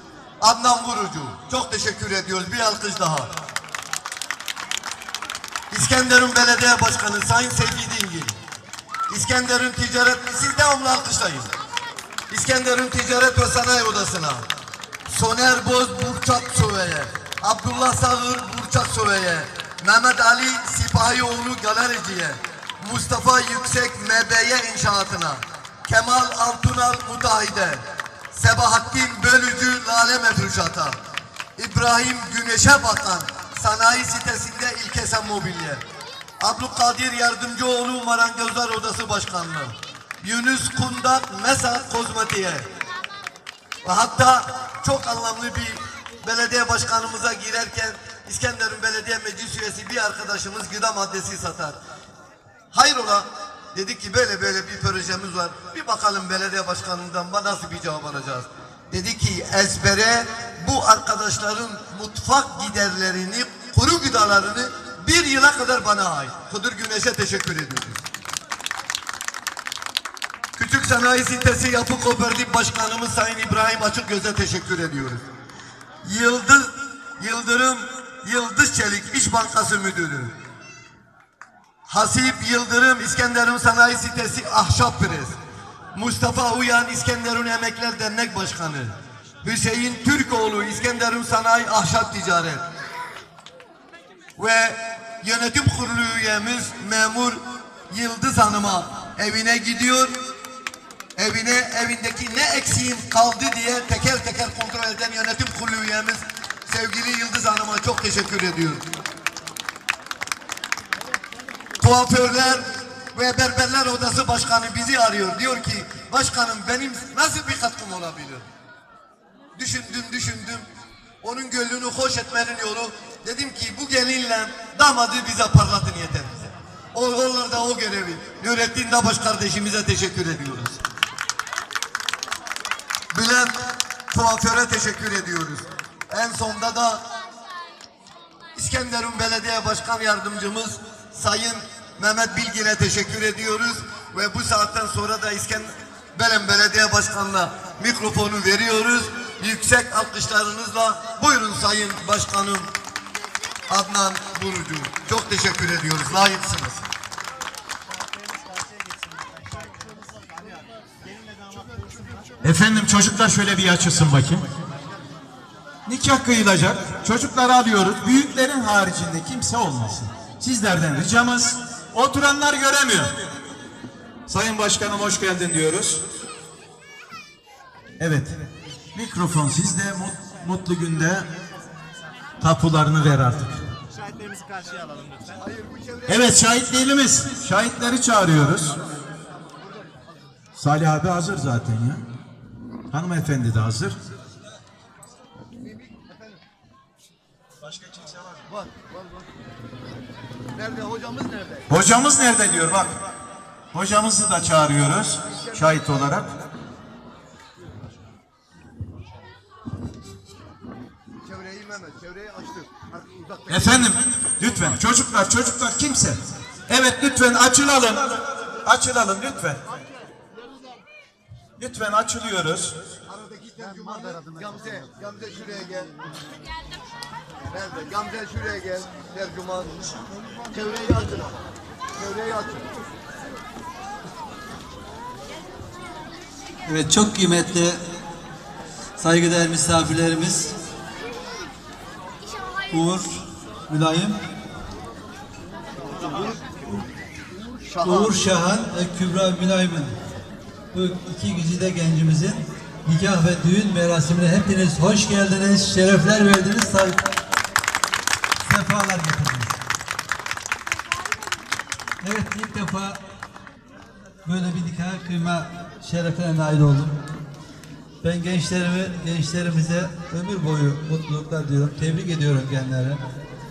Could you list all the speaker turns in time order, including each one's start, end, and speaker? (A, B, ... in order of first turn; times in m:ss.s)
0:00.4-0:03.3 A
0:05.7-0:08.4 A
0:09.1-0:11.5 A
0:12.3-0:14.5 A
0:15.1-0:31.0 A
0:31.6-0:35.8 A
0:36.4-0:42.7 A
0:43.8-0:51.8 A
0:52.7-1:08.0 A
1:10.6-1:15.2 A
1:16.0-1:20.3 A
1:21.9-1:25.4 A
1:25.9-1:32.6 A
1:34.4-1:40.1 A
1:41.2-1:48.8 A
1:51.8-1:58.5 A
1:59.6-2:00.7 A
2:01.2-2:10.8 A
2:13.1-2:17.0 A
2:18.6-2:32.7 A
2:33.7-2:36.8 A
2:42.4-2:44.5 B
2:45.9-2:53.2 B
2:54.3-2:56.0 B
2:58.0-2:58.4 B
2:58.9-3:01.3 B
3:02.4-3:03.6 B
3:05.2-3:06.6 A
3:06.1-3:08.8 B
3:10.6-3:12.0 B
3:12.9-3:14.0 B
3:15.6-3:16.4 A
3:17.6-3:18.4 B
3:18.5-3:19.2 A
3:20.5-3:21.7 A
3:21.7-3:23.0 B
3:23.7-3:26.3 B
3:31.2-3:33.8 A
3:33.5-3:39.6 B
3:41.6-3:42.8 B
3:43.1-3:46.0 A
3:47.5-3:49.8 A
3:50.5-3:51.4 A
3:52.0-3:52.7 A
3:56.7-3:57.8 C
3:59.0-4:00.6 C
4:02.7-4:04.2 C
4:06.1-4:06.3 A
4:07.6-4:08.2 A
4:07.8-4:10.0 C
4:10.7-4:17.0 C
4:18.4-4:19.6 C
4:22.0-4:23.0 C
4:24.2-4:27.0 C
4:28.0-4:33.0 C